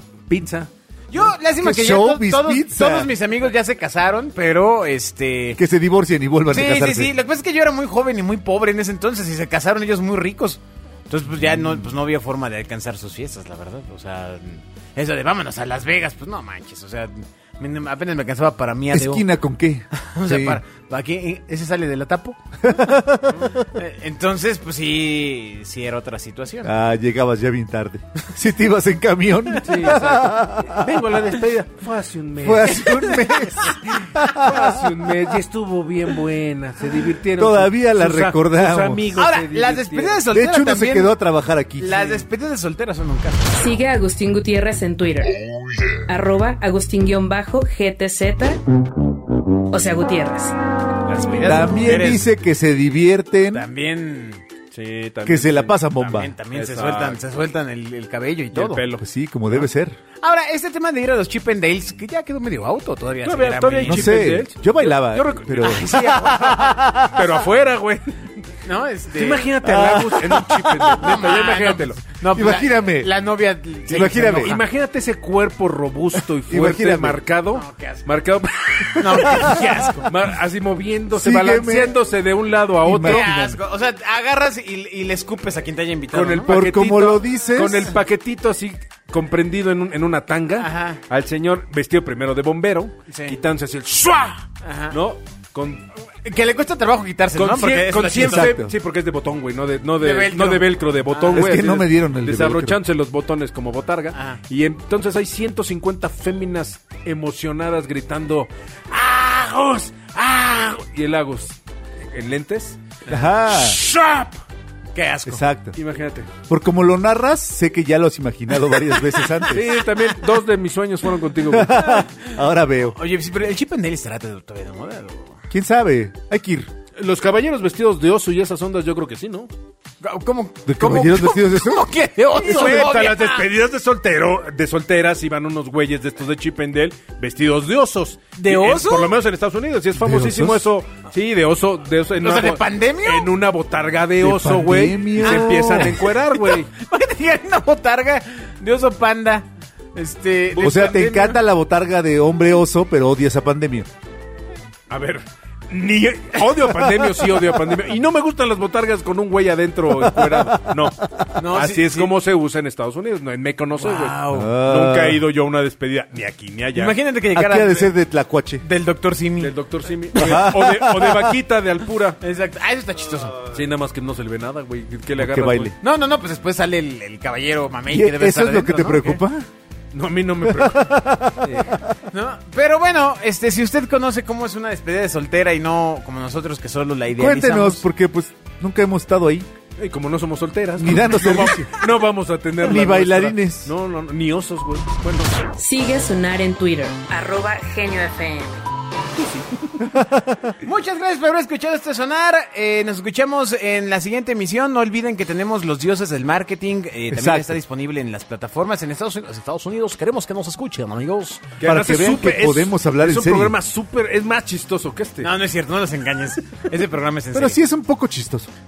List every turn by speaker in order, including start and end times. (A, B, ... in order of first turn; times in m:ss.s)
0:00.3-0:01.2 A
0:01.1-0:05.6 B
0:01.6-0:03.1 C
0:05.6-0:07.1 C
0:06.5-0:19.3 B
0:18.9-0:20.6 C
0:19.9-0:22.4 B
0:22.6-0:23.6 C
0:23.6-0:26.7 B
0:26.6-0:30.9 C
0:29.5-0:30.4 B
0:29.6-0:32.9 A
0:32.4-0:34.8 C
0:32.7-0:34.1 B
0:34.3-0:40.2 A
0:37.4-0:39.1 C
0:39.2-0:41.1 B
0:40.3-0:42.2 C
0:41.8-0:43.6 B
0:43.5-0:45.4 D
0:46.1-0:48.6 D
0:49.7-0:50.6 D
0:51.1-0:52.3 B
0:51.2-0:51.7 A
0:51.3-0:53.7 C
0:53.5-0:54.4 B
0:54.7-0:55.8 A
0:55.2-0:56.3 C
0:56.0-0:58.8 B
0:56.5-0:57.2 A
0:58.5-0:59.7 A
0:59.0-1:00.0 C
1:00.2-1:04.2 B
1:03.2-1:08.2 A
1:03.8-1:07.2 C
1:05.6-1:06.7 B
1:08.6-1:14.6 B
1:09.1-1:12.0 A
1:09.6-1:11.0 C
1:12.3-1:13.1 C
1:13.9-1:14.6 C
1:14.4-1:23.6 A
1:16.5-1:17.2 C
1:17.5-1:18.0 B
1:19.0-1:20.1 B
1:19.0-1:19.9 C
1:21.1-1:22.0 C
1:22.8-1:23.4 C
1:23.0-1:26.7 B
1:26.1-1:35.9 A
1:26.5-1:27.9 C
1:30.6-1:31.0 B
1:33.1-1:33.4 B
1:34.6-1:35.0 B
1:36.2-1:38.6 B
1:37.3-1:51.6 A
1:38.2-1:38.7 C
1:40.0-1:41.6 B
1:41.3-1:42.8 C
1:44.1-1:44.4 B
1:52.1-1:52.8 A
1:53.1-1:54.4 B
1:53.1-1:53.8 C
1:54.9-1:55.4 B
1:55.3-1:55.8 C
1:55.8-1:56.3 A
1:56.5-1:59.7 C
1:59.5-2:02.0 A
2:01.5-2:03.0 C
2:01.8-2:02.3 B
2:02.8-2:05.4 B
2:05.5-2:06.7 C
2:07.0-2:09.5 A
2:10.0-2:13.5 B
2:10.7-2:11.9 C
2:12.4-2:26.7 A
2:18.4-2:19.1 B
2:20.0-2:20.6 C
2:22.2-2:23.3 B
2:24.2-2:26.0 C
2:25.2-2:31.4 B
2:30.5-2:31.1 A
2:30.6-2:33.9 C
2:34.9-2:47.0 A
2:36.4-2:37.1 B
2:40.1-2:40.7 C
2:41.4-2:42.1 B
2:43.8-2:44.5 B
2:44.3-2:45.2 C
2:46.8-2:47.9 B
2:47.3-2:48.6 C
2:48.6-2:49.5 B
2:49.4-2:52.2 A
2:50.2-2:50.5 B
2:50.2-2:51.4 C
2:52.2-2:53.4 B
2:53.5-2:55.7 A
2:55.2-2:55.8 C
2:55.8-2:59.2 B
2:57.9-2:59.5 C
2:59.9-3:01.8 A
3:00.4-3:01.9 C
3:02.1-3:07.8 B
3:07.2-3:09.5 C
3:09.8-3:15.3 A
3:10.8-3:11.7 C
3:12.6-3:13.7 C
3:15.6-3:18.7 D
3:19.8-3:20.5 C
3:20.6-3:31.6 B
3:27.1-3:27.6 C
3:31.6-3:35.3 A
3:31.6-3:33.6 C
3:35.2-3:37.6 B
3:37.3-3:38.5 C